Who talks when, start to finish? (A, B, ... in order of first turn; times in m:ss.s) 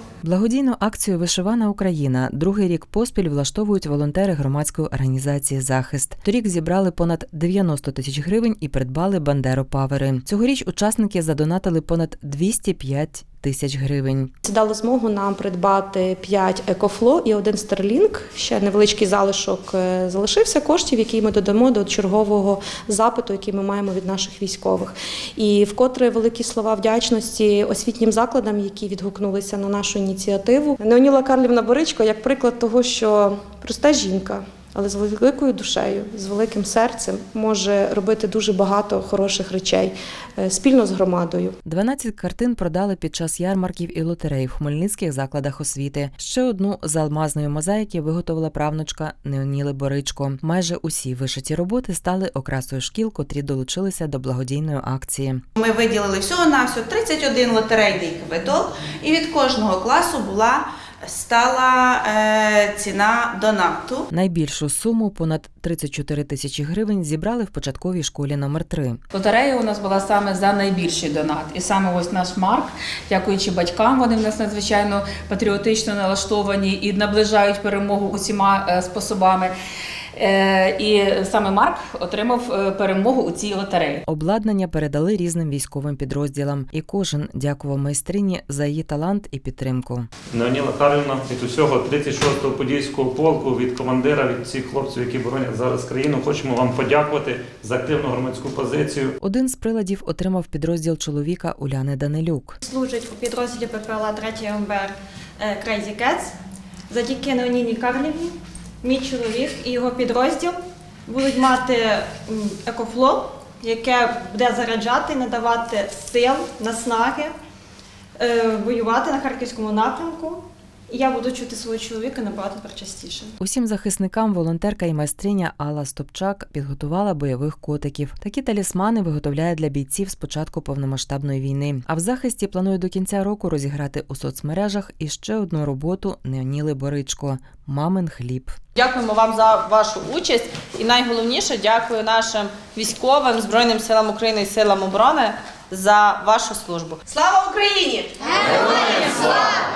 0:00.2-0:14.3 A
0:14.4-0:41.6 B
0:41.6-0:55.4 A
0:55.6-1:04.1 C
1:04.1-1:09.0 A
1:09.1-1:19.5 D
1:20.2-1:24.0 D
1:24.1-1:30.1 A
1:30.3-1:39.1 E
1:39.2-1:42.6 A
1:42.6-1:46.3 F
1:46.9-1:50.6 F
1:51.1-1:57.3 F
1:58.2-2:03.3 F
2:03.4-2:18.6 A
2:18.7-2:27.1 G
2:27.9-2:29.4 G